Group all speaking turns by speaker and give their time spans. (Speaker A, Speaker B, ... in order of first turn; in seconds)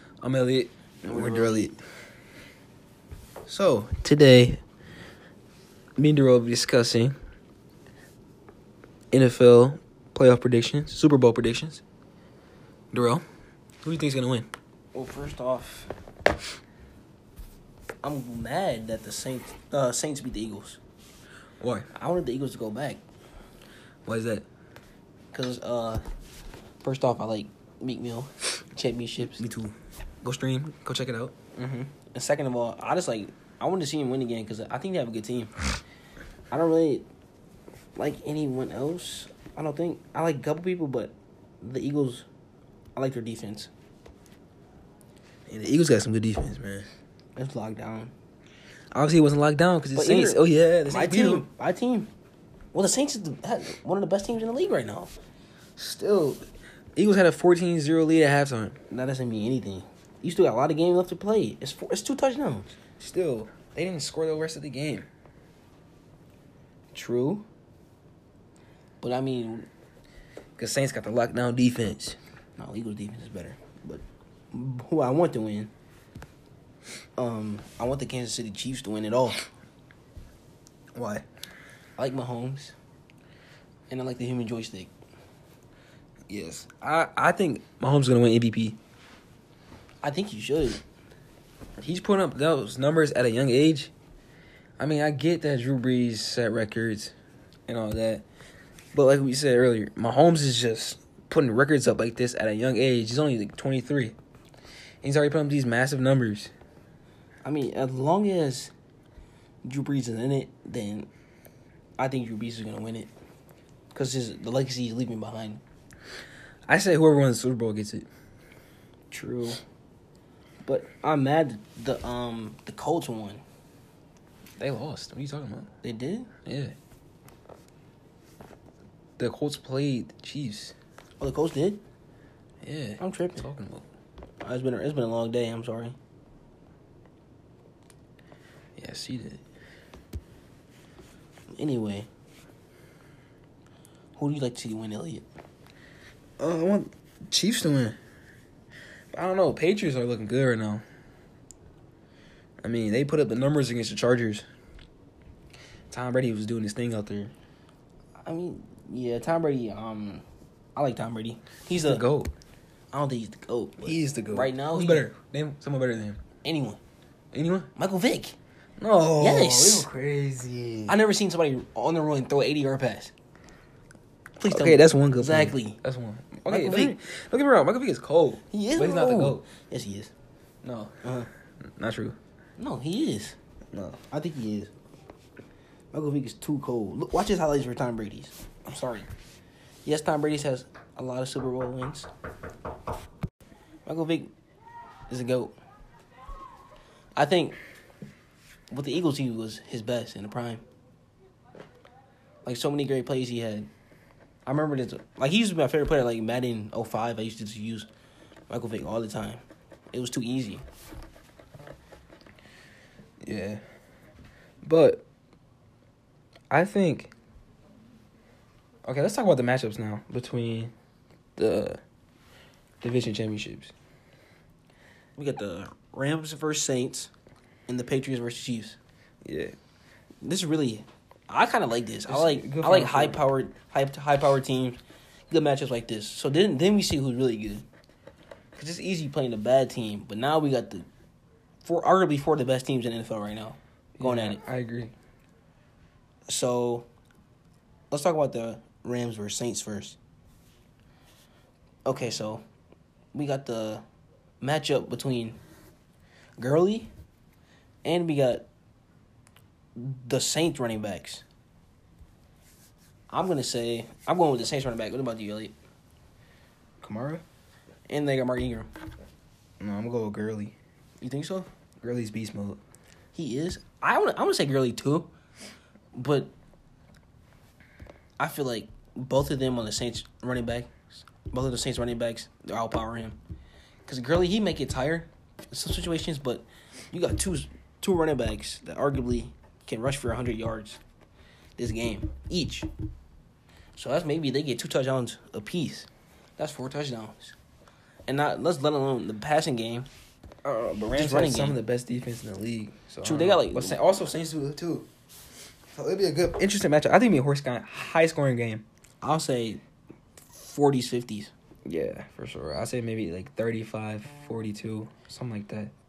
Speaker A: 0.2-1.8, 3.5-4.6, 6.0-7.2, 9.1-11.8, 12.9-13.2, 13.8-14.5, 21.6-21.9, 24.1-24.4, 29.4-31.3, 45.5-46.9, 48.9-51.5, 55.8-58.8, 63.0-65.1, 66.9-67.4, 70.6-72.2, 81.0-81.3, 86.3-88.8, 91.8-93.9, 94.8-97.1, 97.7-98.2, 98.9-104.2, 105.0-106.5, 116.7-118.1, 124.6-125.7, 126.5-126.8, 129.2-130.8, 132.6-133.8, 138.8-139.4, 146.4-148.0, 149.1-150.8, 152.6-154.5, 155.9-157.3, 161.8-162.3, 163.8-166.2, 167.3-167.7, 168.8-171.0, 174.5-179.4, 180.6-181.0, 181.7-182.2, 213.2-213.6, 214.7-215.0, 216.5-217.1, 218.9-220.7, 221.4-221.8, 222.8-223.7, 229.2-229.6, 232.1-233.2, 244.0-244.9, 266.8-267.2, 269.6-270.6, 271.8-272.6, 300.4-304.9, 305.7-308.6, 311.6-315.7
Speaker B: 1.1-1.8, 14.9-15.9, 18.0-20.8, 21.9-23.0, 25.3-26.0, 26.8-29.5, 31.6-35.5, 36.5-37.1, 38.0-42.3, 43.0-43.7, 47.4-48.1, 50.0-52.1, 52.7-55.1, 58.9-62.8, 69.0-69.7, 72.6-75.7, 77.2-79.5, 82.0-82.8, 83.9-84.9, 90.0-90.8, 107.4-108.7, 109.6-111.1, 112.0-113.1, 113.9-115.6, 119.1-119.6, 120.6-123.4, 125.8-126.3, 131.2-131.8, 133.0-133.4, 134.4-136.0, 141.5-142.1, 144.2-145.3, 158.2-160.2, 160.8-162.1, 162.9-165.1, 166.4-166.8, 167.8-168.4, 169.2-169.9, 170.9-173.1, 174.4-175.8, 176.5-177.0, 178.5-180.1, 181.0-181.3, 182.6-183.4, 184.0-184.7, 185.9-189.1, 189.8-192.1, 193.9-194.3, 195.1-195.6, 197.2-197.6, 198.7-200.6, 202.4-203.7, 204.5-207.9, 208.5-210.7, 225.2-227.1, 227.7-228.8, 230.2-237.7, 238.6-240.9, 241.6-244.4, 246.3-246.9, 247.9-250.0, 251.9-252.4, 253.1-253.8, 254.4-255.4, 256.4-256.9, 257.8-258.5, 259.8-261.2, 263.1-265.6, 267.9-268.7, 271.0-271.5, 273.1-275.1, 275.9-276.3, 278.2-280.7, 281.3-283.2, 283.9-290.8, 291.6-292.7, 293.8-297.4, 298.1-299.9, 300.9-301.6, 303.0-303.8, 309.0-309.6, 310.2-311.3